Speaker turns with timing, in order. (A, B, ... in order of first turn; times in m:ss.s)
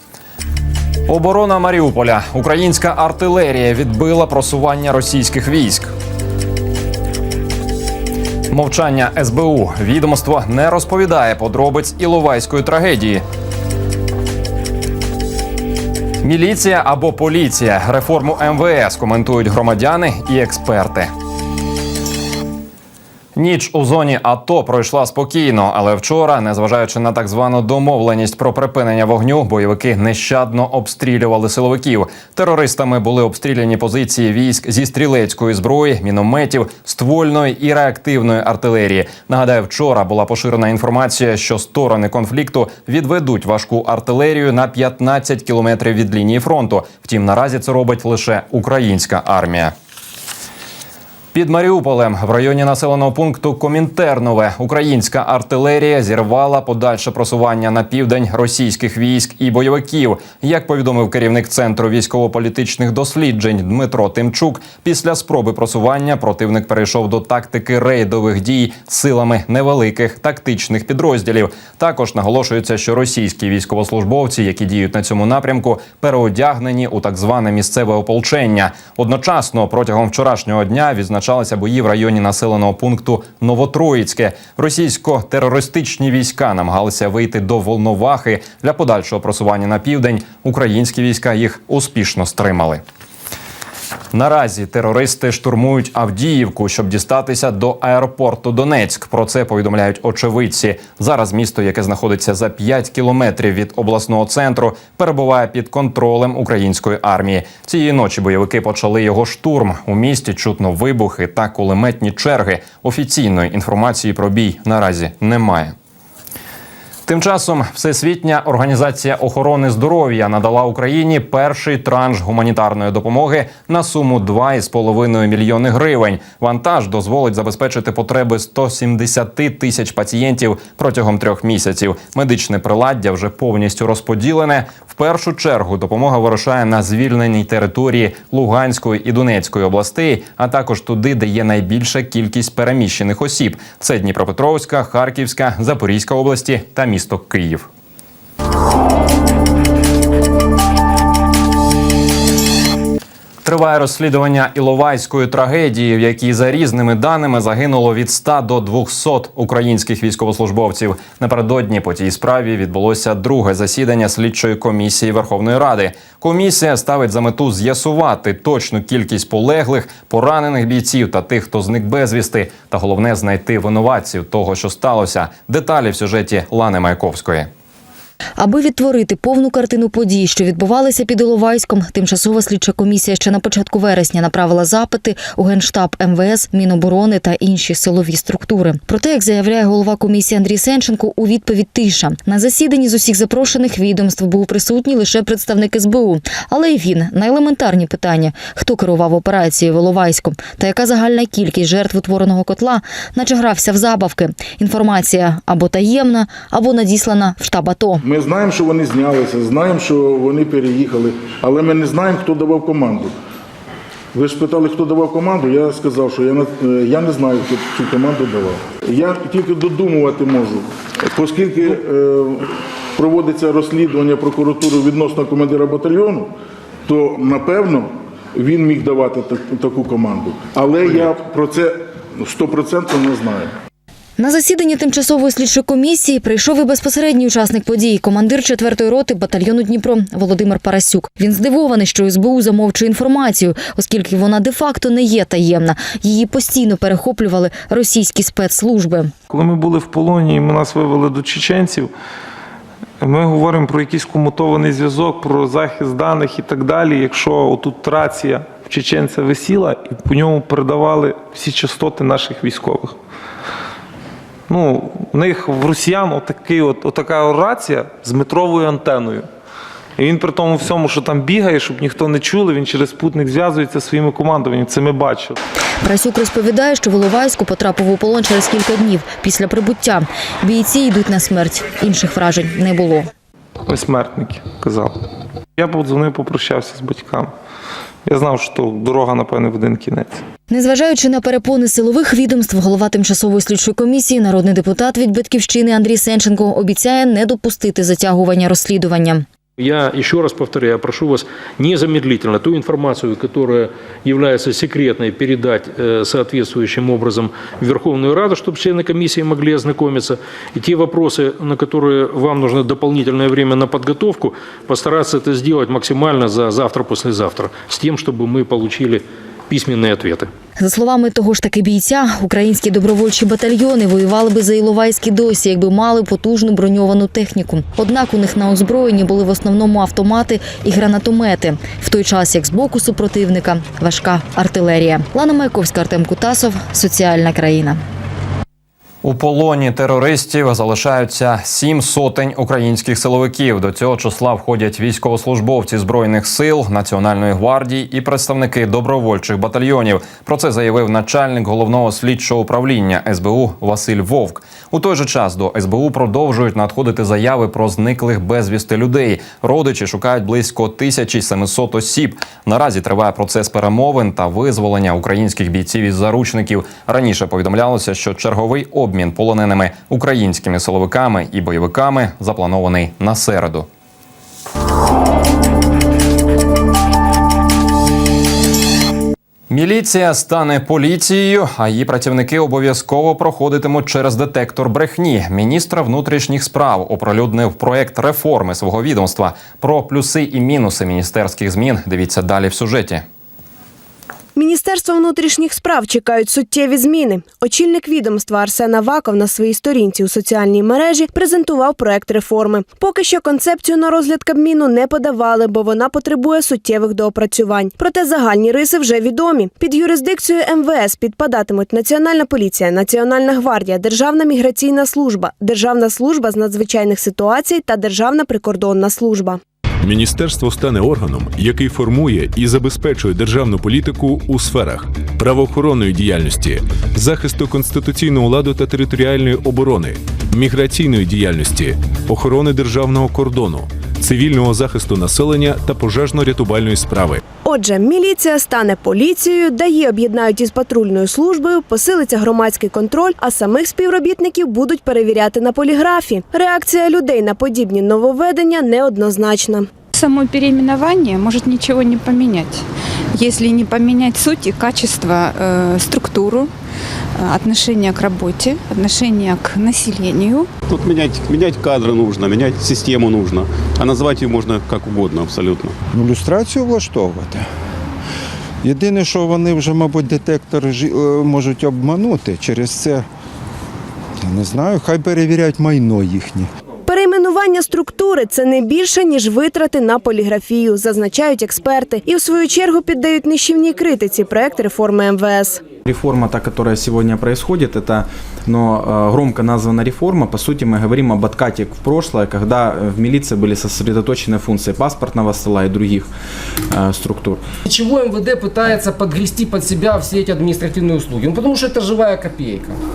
0:01.1-0:05.9 A
0:08.5-0:13.2 A
0:16.2-0:21.1 A
0:23.4-0:49.7 A
0:51.3-1:32.8 A
1:34.1-1:55.7 A
1:57.0-2:27.7 A
2:33.4-2:57.5 A
2:58.4-3:28.0 B
3:28.0-3:33.1 C
3:34.1-3:46.3 C
3:46.9-3:53.5 C
3:54.2-4:09.1 B
4:09.3-4:11.9 D
4:13.0-4:23.0 D
4:24.5-4:29.2 D
4:30.0-4:35.4 D
4:35.8-4:43.1 B
4:43.7-4:45.0 D
4:45.6-4:47.3 D
4:48.0-4:50.2 D
4:50.5-4:59.2 B
4:59.6-5:20.3 E
5:20.6-5:37.8 B
5:39.0-6:13.7 A
6:19.5-6:33.0 A
6:34.3-6:59.4 F
6:59.8-7:17.2 G
7:17.4-7:29.7 F
7:29.9-7:36.5 H
7:37.2-7:40.5 H
7:40.7-7:45.8 I
7:45.9-7:47.4 J
7:48.6-7:53.0 J
7:54.2-7:56.5 J
7:56.8-8:05.6 F
8:05.8-8:16.1 K
8:16.7-8:17.4 K
8:17.6-8:22.8 L